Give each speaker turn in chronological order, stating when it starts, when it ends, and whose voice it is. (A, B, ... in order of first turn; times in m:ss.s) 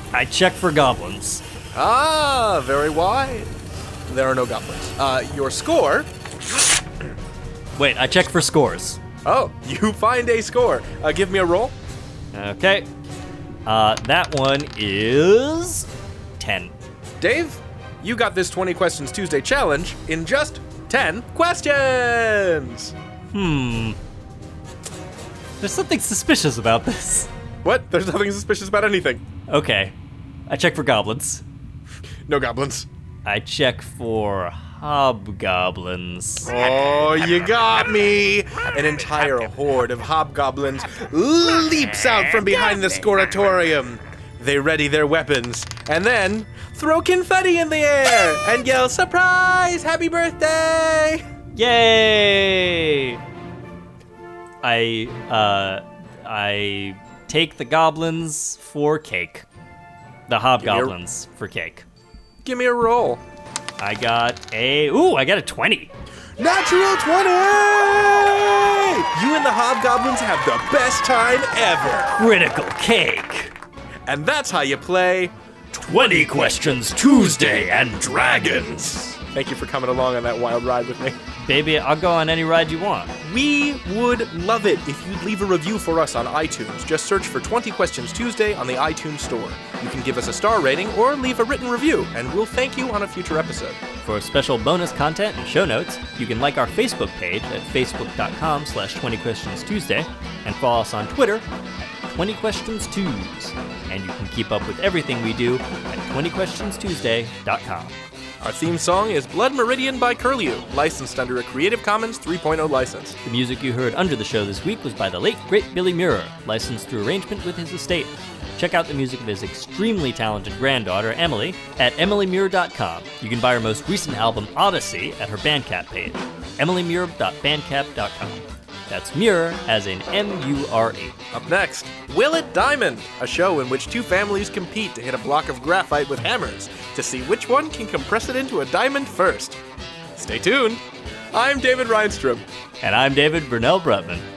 0:00.1-0:01.4 A
0:01.7-0:03.5 B
0:04.1-0:06.1 B
0:07.8-0:09.0 A
0:09.2-0:11.8 B
0:12.3-0:12.9 A
0:13.6-0:16.7 A
0:17.2-0:22.9 B
0:23.3-0:24.0 A
0:25.6-0:27.3 A
0:27.6-0:29.2 B
0:29.5-0:30.0 A
0:30.5-0:31.4 A
0:32.3-0:32.9 B
0:33.2-0:36.5 A
0:36.4-0:51.2 B
0:51.5-0:53.2 A
0:54.6-0:59.5 A
1:00.3-1:01.9 A
1:00.6-1:01.0 B
1:02.4-1:03.2 B
1:03.8-1:05.9 A
1:06.4-1:12.2 B
1:12.2-1:13.6 A
1:14.1-1:15.3 B
1:15.7-1:19.2 A
1:19.2-1:21.2 B
1:21.4-1:23.1 A
1:23.2-1:33.8 B
1:34.0-1:41.4 A
1:42.1-1:48.0 A
1:48.4-1:53.2 B
1:53.2-2:11.2 A
2:11.3-2:19.6 B
2:20.2-2:20.8 B
2:21.3-2:22.4 B
2:22.8-2:24.3 A